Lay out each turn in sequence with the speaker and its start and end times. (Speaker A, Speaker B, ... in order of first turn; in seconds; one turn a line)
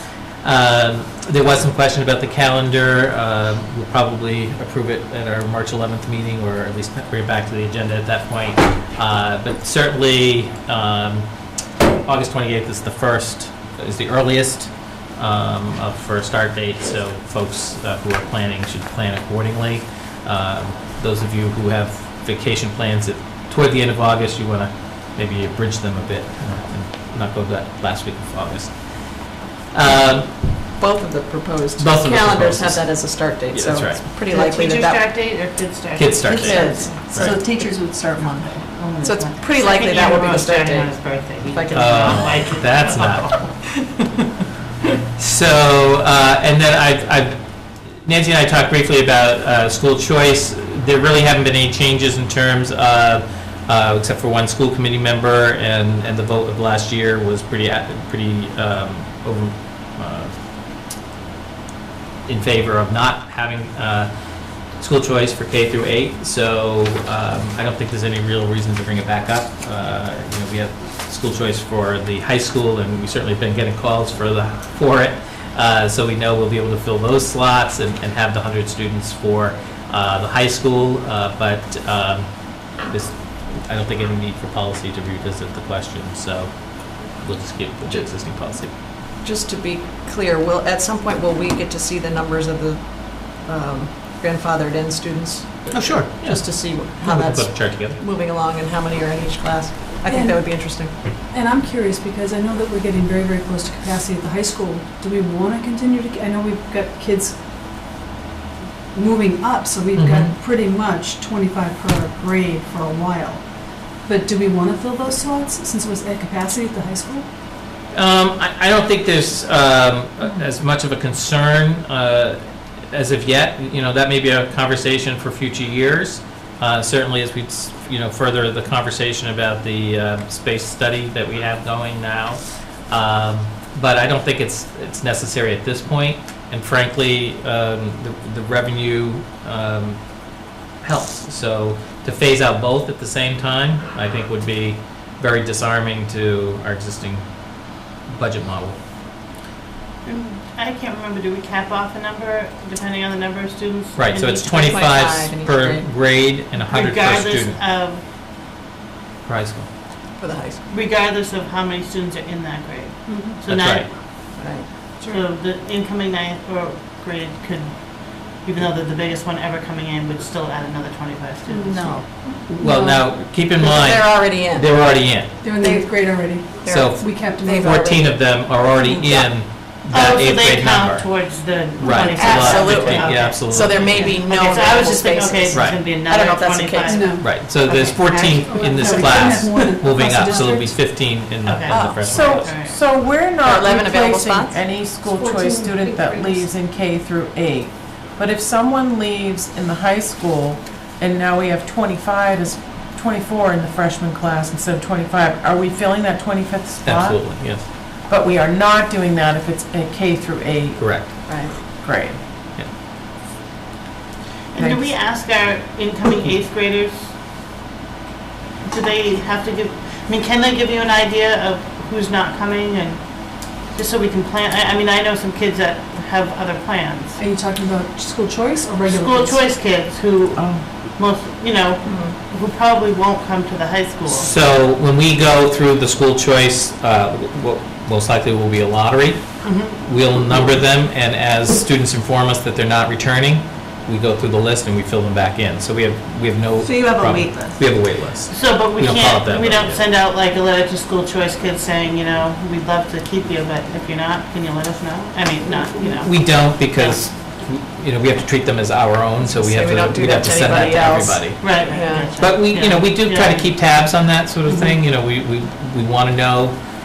Speaker A: 0.4-11.3
Speaker A: 12.0-30.6
Speaker B: 30.6-35.1
Speaker A: 31.8-34.0
Speaker C: 34.3-37.4
Speaker A: 36.0-37.4
Speaker B: 36.3-42.4
Speaker C: 38.7-43.6
Speaker A: 41.7-43.3
Speaker A: 45.2-60.3
Speaker A: 62.3-64.1
Speaker A: 64.8-88.7
Speaker B: 89.2-101.0
Speaker A: 95.7-98.0
Speaker D: 100.1-107.4
Speaker D: 108.9-113.5
Speaker A: 110.0-110.3
Speaker D: 114.0-117.3
Speaker A: 117.9-140.1
Speaker A: 140.8-147.3
Speaker A: 148.1-148.8
Speaker C: 150.1-154.8
Speaker A: 154.0-157.6
Speaker B: 154.4-155.9
Speaker C: 156.6-158.0
Speaker A: 159.3-159.7
Speaker B: 160.2-160.6
Speaker C: 160.7-163.9
Speaker D: 163.1-163.4
Speaker A: 163.5-163.9
Speaker B: 164.4-164.7
Speaker C: 165.0-172.0
Speaker D: 171.5-173.1
Speaker B: 171.7-172.1
Speaker A: 172.5-175.3
Speaker B: 173.4-179.4
Speaker D: 175.4-177.9
Speaker A: 176.7-181.2
Speaker C: 179.9-187.2
Speaker A: 181.8-184.1
Speaker B: 181.8-188.3
Speaker A: 185.5-185.8
Speaker D: 186.9-187.5
Speaker A: 187.2-192.5
Speaker D: 188.0-190.8
Speaker C: 191.4-192.8
Speaker B: 191.7-192.1
Speaker E: 192.0-212.2
Speaker B: 193.4-194.6
Speaker D: 195.0-196.5
Speaker A: 206.8-207.7
Speaker A: 210.8-211.1
Speaker B: 211.3-211.6
Speaker C: 214.5-217.1
Speaker C: 218.6-227.2
Speaker D: 227.2-229.5
Speaker C: 228.9-234.3
Speaker E: 230.4-230.6
Speaker B: 231.9-232.1
Speaker A: 234.1-249.8
Speaker C: 239.4-239.8
Speaker B: 246.6-247.6
Speaker C: 248.3-257.0
Speaker A: 256.0-261.5
Speaker B: 259.3-262.2
Speaker C: 261.4-263.5
Speaker A: 262.2-266.6